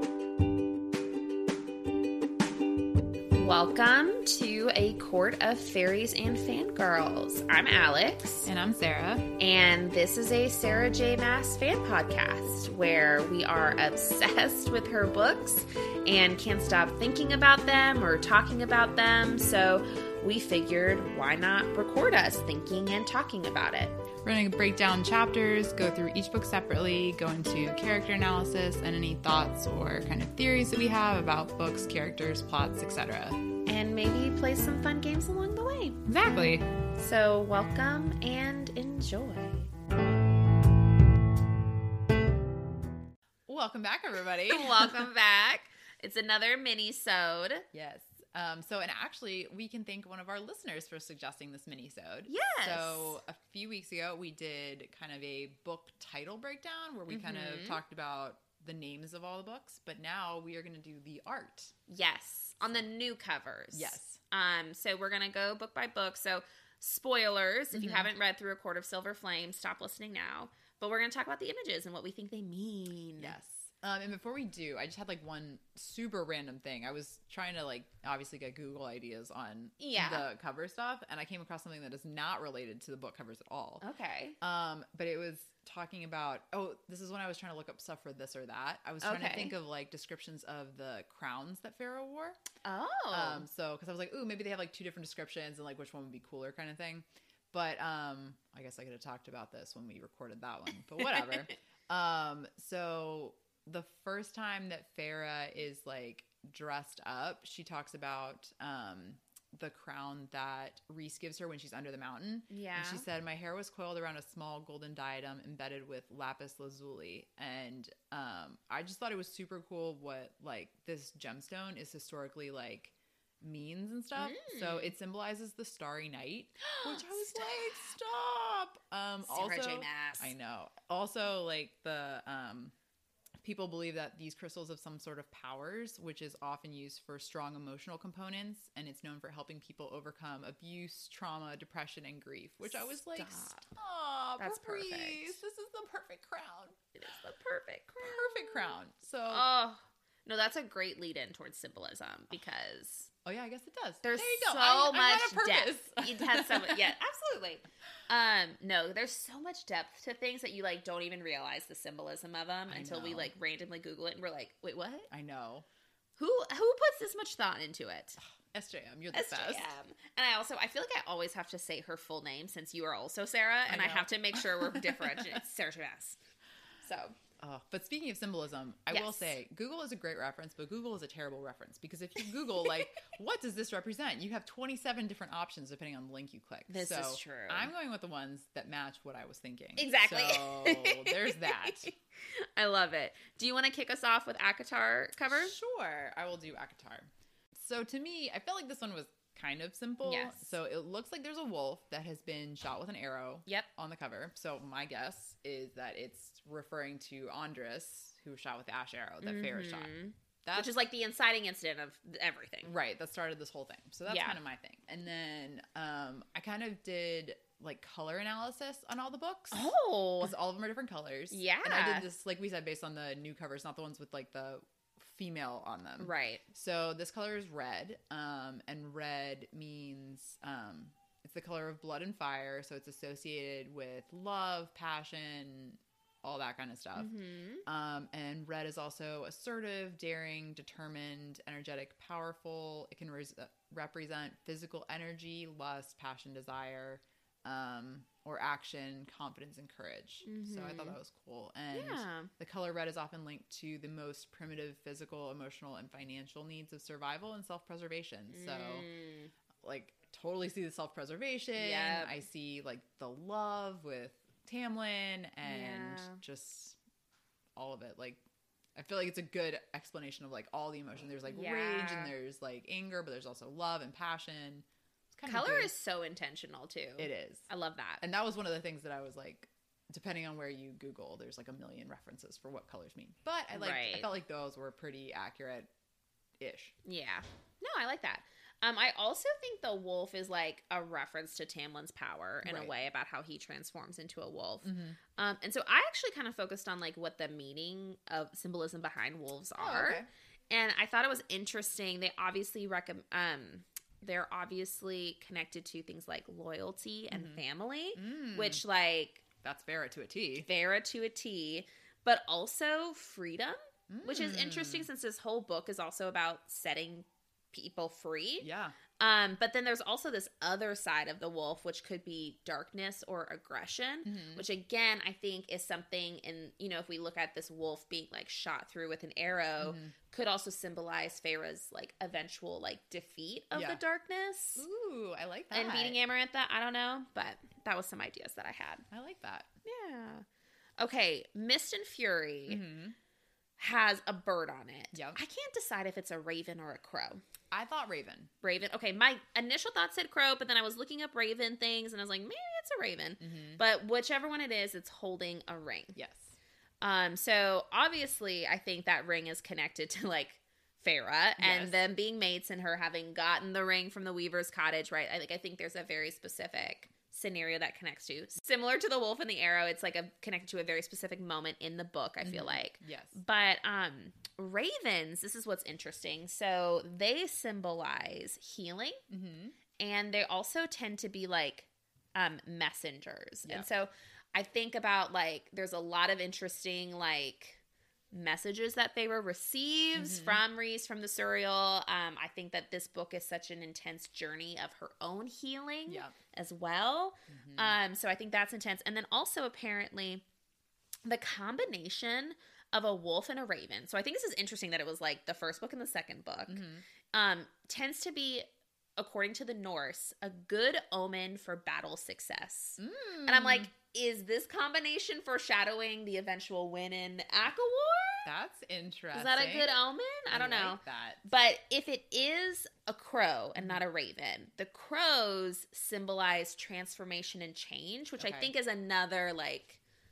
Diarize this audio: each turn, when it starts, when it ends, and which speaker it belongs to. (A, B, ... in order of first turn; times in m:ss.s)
0:03.3-0:08.5 A
0:08.4-0:09.3 B
0:09.4-0:24.0 A
0:24.2-0:33.4 B
0:33.6-0:36.0 A
0:36.1-0:36.7 B
0:36.9-0:39.7 A
0:43.5-0:45.0 B
0:44.5-0:47.7 A
0:47.7-1:01.7 B
0:52.3-0:53.2 A
0:57.1-0:57.8 A
1:01.9-1:13.4 A
1:03.7-1:04.2 B
1:07.7-1:08.1 B
1:13.2-1:23.8 B
1:19.8-1:20.3 A
1:23.8-1:24.4 A
1:24.4-1:32.4 B
1:29.0-1:29.5 A
1:32.6-1:33.5 A
1:33.1-2:12.7 B
1:41.0-1:41.4 A
1:52.5-1:53.1 A
2:04.2-2:04.9 A
2:06.6-2:07.9 A
2:09.2-2:10.3 A
2:13.4-2:26.8 B
2:22.6-2:23.6 A
2:24.4-2:25.4 A
2:27.0-2:33.1 A
2:28.0-2:29.4 B
2:33.2-2:37.0 B
2:34.0-2:45.1 A
2:42.7-2:43.3 B
2:45.1-2:45.6 B
2:46.2-2:48.2 A
2:48.4-2:49.7 B
2:49.1-2:56.2 A
2:53.7-2:55.4 B
2:56.8-2:57.2 A
2:57.4-3:11.9 B
2:58.9-2:59.4 A
3:02.6-3:02.9 A
3:06.7-3:07.7 A
3:09.8-3:15.6 A
3:15.2-3:30.7 B
3:20.0-3:20.6 A
3:29.2-3:32.7 A
3:32.6-4:18.9 B
3:34.0-3:34.4 A
3:39.5-3:40.3 A
3:41.3-3:42.1 A
3:46.0-3:46.4 A
3:56.9-3:57.6 A
4:10.2-4:11.0 A
4:11.7-4:12.3 A
4:18.3-4:19.3 A
4:19.6-4:26.8 B
4:21.5-4:22.2 A
4:25.4-4:26.2 A
4:27.6-4:28.2 B
4:28.8-4:35.7 B
4:31.2-4:32.1 A
4:35.2-4:38.0 A
4:37.0-4:37.5 B
4:38.0-4:45.7 B
4:43.5-4:44.2 A
4:46.4-4:46.7 B
4:46.8-5:09.2 A
4:52.4-4:52.8 B
4:54.6-4:55.0 B
4:59.6-5:00.1 B
5:07.1-5:07.4 B
5:07.9-5:08.6 B
5:09.4-5:10.5 B
5:10.4-5:34.6 A
5:13.9-5:14.9 B
5:18.4-5:18.8 B
5:24.0-5:24.4 B
5:29.6-5:29.9 B
5:33.5-5:33.8 B
5:34.6-5:36.0 B
5:35.5-5:38.8 A
5:38.9-5:39.5 B
5:39.6-5:40.2 A
5:40.8-5:42.6 A
5:42.5-5:43.0 B
5:43.6-5:47.2 A
5:44.9-5:45.2 B
5:47.5-5:48.3 B
5:48.4-5:56.0 A
5:53.2-5:53.6 B
5:55.9-5:56.4 B
5:56.8-6:19.0 A
6:01.4-6:01.8 B
6:12.2-6:13.2 B
6:19.1-6:19.6 B
6:19.8-6:27.6 A
6:23.4-6:23.7 B
6:28.1-6:40.2 A
6:29.9-6:30.4 B
6:35.9-6:36.1 B
6:37.3-6:37.8 B
6:41.0-6:48.4 A
6:46.5-6:46.8 B
6:49.0-6:58.3 A
6:52.8-6:53.7 B
6:58.2-7:01.3 B
6:59.1-7:09.8 A
7:03.6-7:03.8 B
7:08.2-7:08.5 B